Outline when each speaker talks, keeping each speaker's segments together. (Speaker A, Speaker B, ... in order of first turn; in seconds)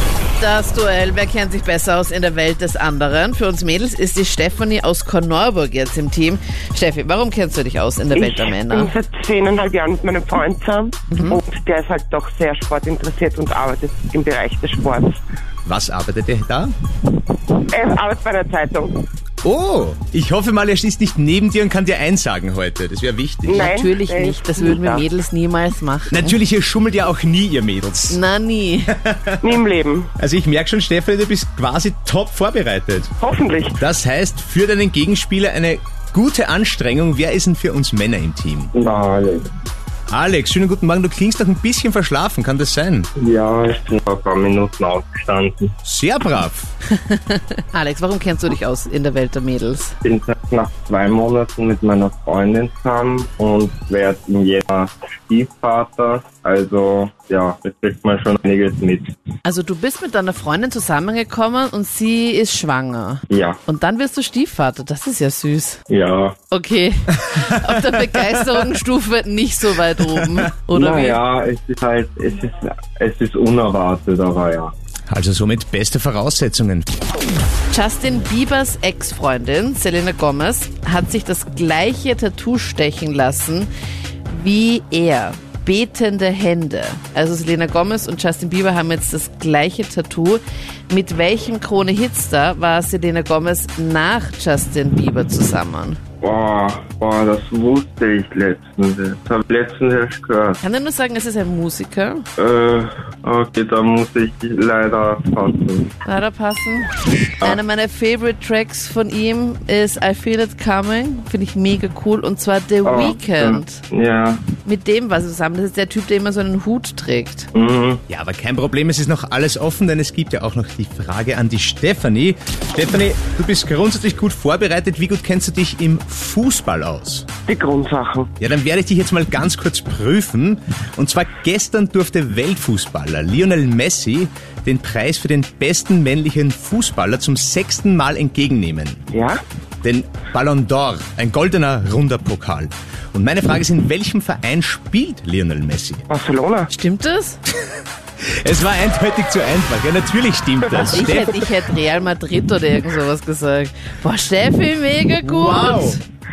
Speaker A: 0.4-8.9, 11.1-11.4, 23.6-26.4, 28.1-29.0, 46.9-50.0, 59.5-65.8, 66.5-71.2, 77.7-83.7, 84.3-96.0, 100.6-102.2, 106.0-106.9, 107.4-113.8, 114.7-117.5, 146.7-147.4, 150.8-156.0
Speaker B: 8.1-15.2, 17.6-19.0, 23.5-25.1, 29.4-30.1, 33.2-33.8, 127.5-128.3, 139.1-139.4, 146.1-146.7
Speaker C: 15.7-16.7, 19.4-23.7, 26.1-28.2, 29.0-29.5, 30.2-33.1, 33.8-38.7, 40.1-43.1, 45.9-46.7, 67.7-68.6, 70.2-70.5, 75.1-77.0, 118.1-127.3, 128.4-139.0, 139.8-146.1, 148.2-151.5, 155.2-156.0
Speaker D: 38.7-39.5, 43.2-45.7, 50.0-59.1, 63.3-63.6, 65.9-66.4, 70.7-74.7, 96.2-100.6, 102.4-105.9, 112.8-114.4, 117.5-118.0